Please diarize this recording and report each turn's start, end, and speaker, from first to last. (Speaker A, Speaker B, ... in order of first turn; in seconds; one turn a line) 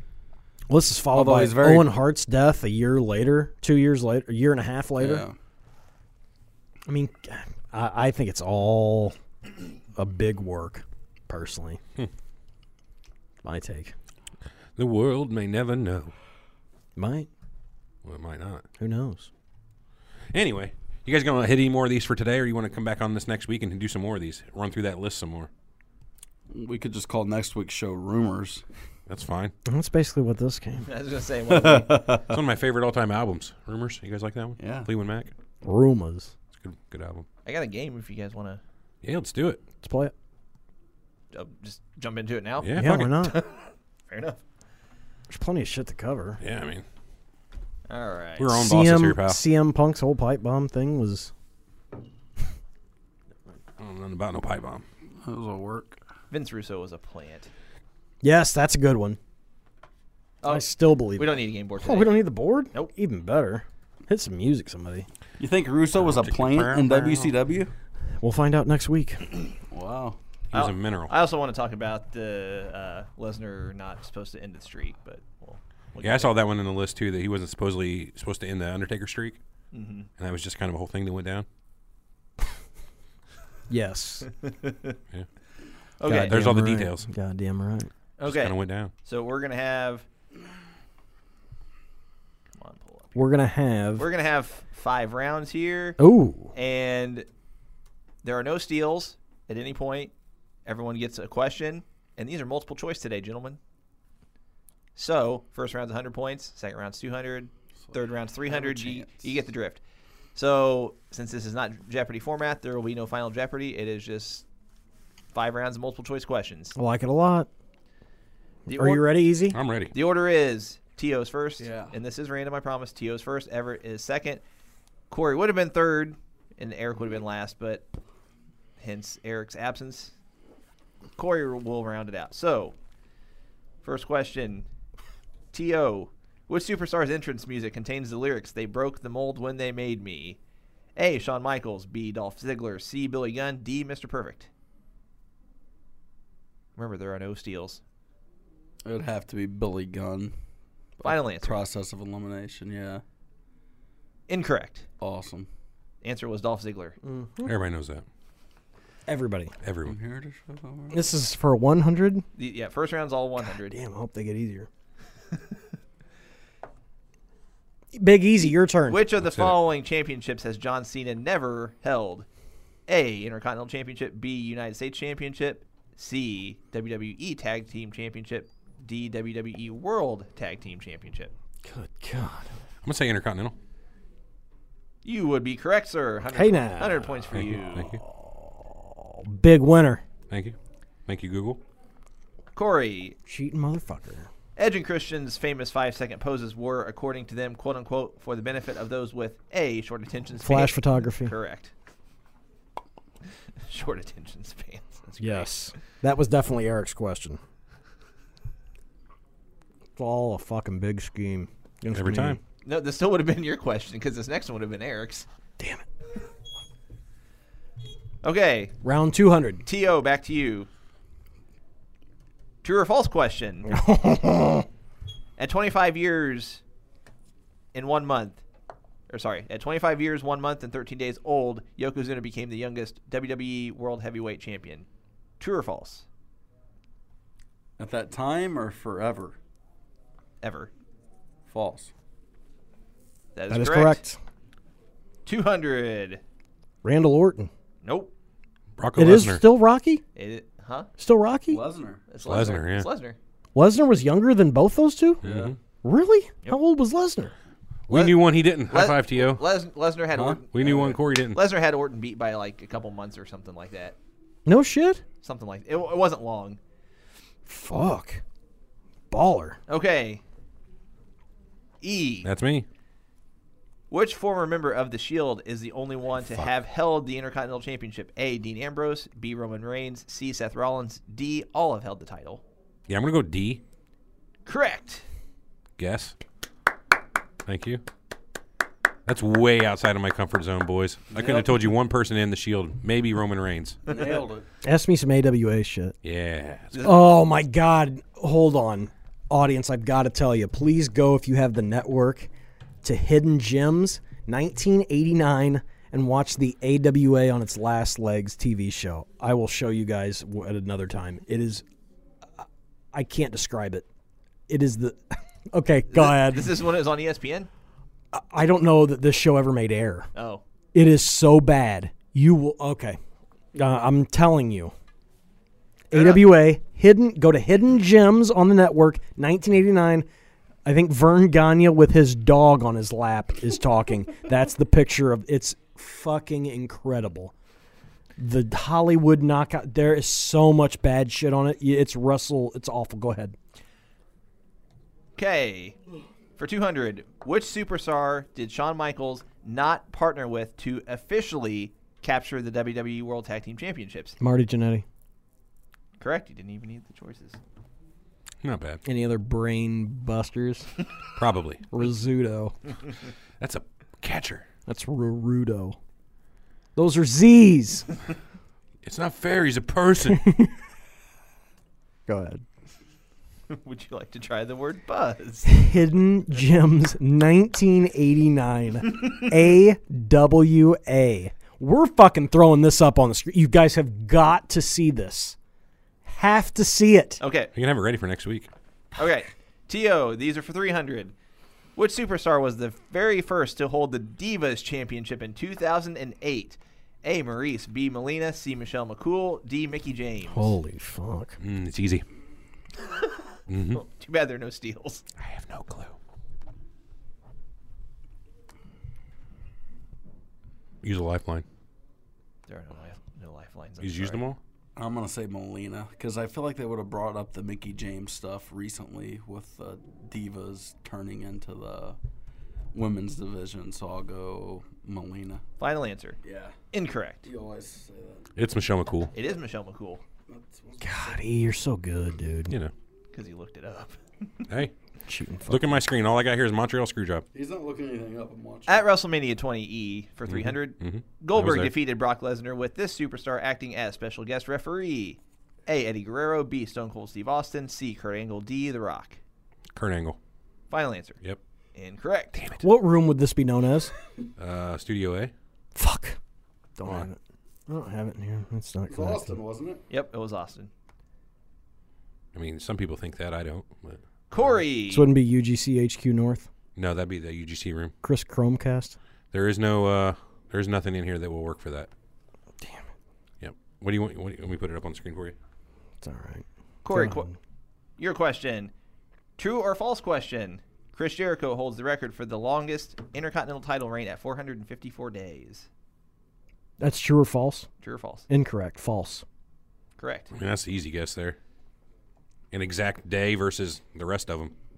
Speaker A: 0.7-5.2
Speaker B: 1.1-1.9
Speaker B: 5.0-5.3
Speaker A: 6.9-9.2
Speaker A: 9.9-11.8
Speaker A: 13.4-13.9
Speaker C: 14.8-16.1
Speaker A: 16.9-17.3
Speaker C: 18.1-18.6
Speaker A: 18.8-19.3
Speaker C: 20.3-25.5
Speaker B: 26.5-28.6
Speaker C: 29.1-29.5
Speaker A: 29.6-30.9
Speaker D: 30.9-32.1
Speaker B: 31.5-32.3
Speaker C: 32.3-35.3
Speaker B: 34.6-34.9
Speaker A: 35.6-36.3
Speaker C: 36.6-37.3
Speaker D: 37.4-38.6
Speaker C: 39.0-39.6
Speaker A: 39.8-40.1
Speaker D: 41.3-44.4
Speaker C: 42.6-43.1
Speaker A: 42.8-43.4
Speaker A: 45.3-46.4
Speaker C: 46.4-46.8
Speaker D: 47.9-48.5
Speaker C: 48.4-49.4
Speaker A: 48.5-51.3
Speaker C: 53.8-54.8
Speaker B: 55.2-56.0
Speaker D: 56.3-57.5
Speaker A: 58.2-59.2
Speaker D: 60.4-62.9
Speaker A: 60.4-65.1
Speaker B: 65.4-67.7
Speaker C: 65.9-67.3
Speaker A: 68.2-69.3
Speaker B: 69.7-70.2
Speaker C: 70.5-71.1
Speaker D: 70.5-76.4
Speaker C: 76.0-79.4
Speaker D: 79.7-80.1
Speaker C: 80.2-81.5
Speaker A: 83.7-84.3
Speaker D: 84.4-84.9
Speaker D: 86.0-86.4
Speaker A: 86.0-87.9
Speaker C: 86.1-87.1
Speaker D: 88.2-90.1
Speaker C: 88.2-88.9
Speaker D: 92.6-93.2
Speaker A: 93.2-94.1
Speaker D: 94.0-96.0
Speaker A: 96.0-96.5
Speaker D: 96.5-97.3
Speaker D: 98.2-100.1
Speaker D: 100.7-103.6
Speaker D: 105.0-109.8
Speaker B: 108.5-109.2
Speaker D: 110.3-114.5
Speaker D: 115.3-116.7
Speaker A: 116.7-117.5
Speaker D: 118.7-119.1
Speaker A: 118.7-119.6
Speaker C: 119.5-119.9
Speaker D: 119.9-124.4
Speaker B: 121.6-122.0
Speaker D: 125.1-127.9
Speaker D: 128.8-130.1
Speaker D: 131.2-132.7
Speaker D: 133.8-134.7
Speaker D: 135.5-140.4
Speaker D: 140.9-144.5
Speaker D: 146.8-147.8
Speaker B: 148.8-150.3
Speaker B: 151.0-153.0
Speaker D: 151.0-151.6
Speaker D: 154.3-154.8
Speaker B: 155.0-155.5
Speaker D: 156.0-157.0
Speaker A: 157.0-157.5
Speaker C: 157.4-158.0
Speaker A: 159.1-159.5
Speaker C: 159.6-160.0
Speaker B: 159.8-161.0
Speaker A: 160.9-162.3
Speaker D: 162.3-163.8
Speaker A: 163.4-164.7
Speaker A: 167.9-169.0
Speaker D: 168.9-172.3
Speaker C: 169.2-169.6
Speaker D: 172.9-181.3
Speaker A: 181.6-182.5
Speaker C: 182.8-183.6
Speaker D: 185.0-187.9
Speaker A: 186.3-190.0
Speaker C: 187.3-188.0
Speaker C: 190.3-190.6
Speaker C: 191.1-191.6
Speaker D: 192.6-193.2
Speaker A: 193.3-194.3
Speaker D: 194.6-201.7
Speaker A: 200.4-201.3
Speaker D: 203.7-205.5
Speaker A: 205.2-207.4
Speaker A: 209.9-212.4
Speaker C: 211.9-212.4
Speaker D: 212.6-215.3
Speaker A: 215.6-215.8
Speaker D: 218.2-218.7
Speaker A: 218.8-219.7
Speaker D: 219.7-220.7
Speaker D: 222.6-223.7
Speaker A: 223.7-224.7
Speaker D: 225.4-226.6
Speaker D: 227.7-228.4
Speaker D: 229.1-234.8
Speaker D: 235.4-236.1
Speaker B: 237.8-239.3
Speaker D: 240.4-240.7
Speaker B: 241.5-241.9
Speaker D: 243.3-244.0
Speaker A: 243.5-244.2
Speaker D: 245.3-246.2
Speaker A: 246.8-247.5
Speaker D: 247.8-248.1
Speaker C: 248.8-249.4
Speaker A: 248.9-250.0
Speaker D: 250.2-250.9
Speaker A: 251.0-251.6
Speaker B: 251.5-252.0
Speaker D: 252.1-253.2
Speaker C: 252.2-252.9
Speaker A: 253.6-255.2
Speaker C: 255.2-255.6
Speaker B: 255.2-255.5
Speaker A: 255.8-257.3
Speaker C: 257.9-259.4
Speaker D: 257.9-263.9
Speaker B: 260.1-260.8
Speaker C: 260.5-261.4
Speaker A: 264.4-265.0
Speaker D: 265.2-266.6
Speaker A: 267.4-268.2
Speaker A: 269.1-269.6
Speaker D: 269.7-270.2
Speaker D: 271.8-272.3
Speaker C: 272.2-272.6
Speaker D: 273.9-282.4
Speaker C: 282.9-283.6
Speaker D: 284.4-285.1
Speaker C: 285.8-286.1
Speaker C: 287.4-287.8
Speaker C: 289.1-293.8
Speaker B: 291.1-291.5
Speaker B: 293.9-294.4
Speaker A: 294.6-295.9
Speaker C: 296.0-296.7
Speaker D: 296.7-297.0
Speaker A: 296.8-302.3
Speaker A: 302.8-311.6
Speaker A: 312.4-313.9
Speaker A: 314.5-316.6
Speaker D: 315.9-317.5
Speaker A: 318.1-320.1
Speaker D: 320.1-320.4
Speaker A: 320.7-323.0
Speaker A: 323.6-324.7
Speaker A: 325.9-330.1
Speaker D: 325.9-326.3
Speaker A: 330.6-337.3
Speaker A: 338.2-343.4
Speaker D: 345.1-345.8
Speaker D: 346.4-354.2
Speaker A: 354.2-354.9
Speaker D: 356.0-357.4
Speaker C: 358.4-358.8
Speaker A: 358.9-360.7
Speaker C: 361.1-361.7
Speaker A: 361.7-362.6
Speaker C: 363.4-364.4
Speaker A: 364.7-365.8
Speaker A: 366.8-367.9
Speaker C: 368.8-370.3
Speaker A: 370.1-370.5
Speaker A: 372.1-372.4
Speaker D: 373.5-375.5
Speaker A: 375.4-385.4
Speaker A: 386.1-387.2
Speaker D: 387.2-387.5
Speaker C: 387.6-388.5
Speaker D: 388.9-391.1
Speaker D: 391.8-400.6
Speaker A: 400.3-401.4
Speaker C: 401.4-402.0
Speaker D: 402.9-403.1
Speaker C: 403.5-403.8
Speaker D: 403.7-405.1
Speaker C: 405.2-405.9
Speaker C: 410.8-411.4
Speaker D: 412.5-414.2
Speaker C: 413.8-414.4
Speaker B: 414.8-422.0
Speaker B: 422.7-425.4
Speaker D: 425.6-426.2
Speaker B: 426.2-426.6
Speaker D: 426.7-427.3
Speaker B: 427.2-428.2
Speaker C: 428.4-429.1
Speaker D: 429.1-430.0
Speaker B: 430.3-431.2
Speaker A: 430.8-432.5
Speaker D: 433.1-434.0
Speaker C: 434.5-434.7
Speaker A: 435.1-435.8
Speaker C: 435.5-437.3
Speaker B: 437.3-438.9
Speaker D: 438.7-449.2
Speaker C: 440.3-441.7
Speaker C: 449.7-450.2
Speaker D: 450.7-451.2
Speaker D: 451.7-452.4
Speaker C: 452.4-452.6
Speaker A: 452.6-453.9
Speaker C: 454.4-455.3
Speaker A: 455.7-456.2
Speaker A: 456.8-459.4
Speaker B: 458.9-459.8
Speaker D: 459.9-460.7
Speaker C: 462.3-464.0
Speaker D: 464.3-465.1
Speaker A: 464.9-466.5
Speaker C: 466.8-467.9
Speaker A: 468.0-469.0
Speaker C: 469.3-471.9
Speaker A: 472.6-472.9
Speaker C: 473.4-475.4
Speaker A: 476.0-477.4
Speaker D: 476.8-477.3
Speaker D: 478.0-478.7
Speaker D: 479.4-485.7
Speaker A: 486.8-487.7
Speaker D: 487.8-488.3
Speaker A: 488.3-489.2
Speaker D: 490.0-490.3
Speaker C: 490.3-491.4
Speaker C: 492.5-494.5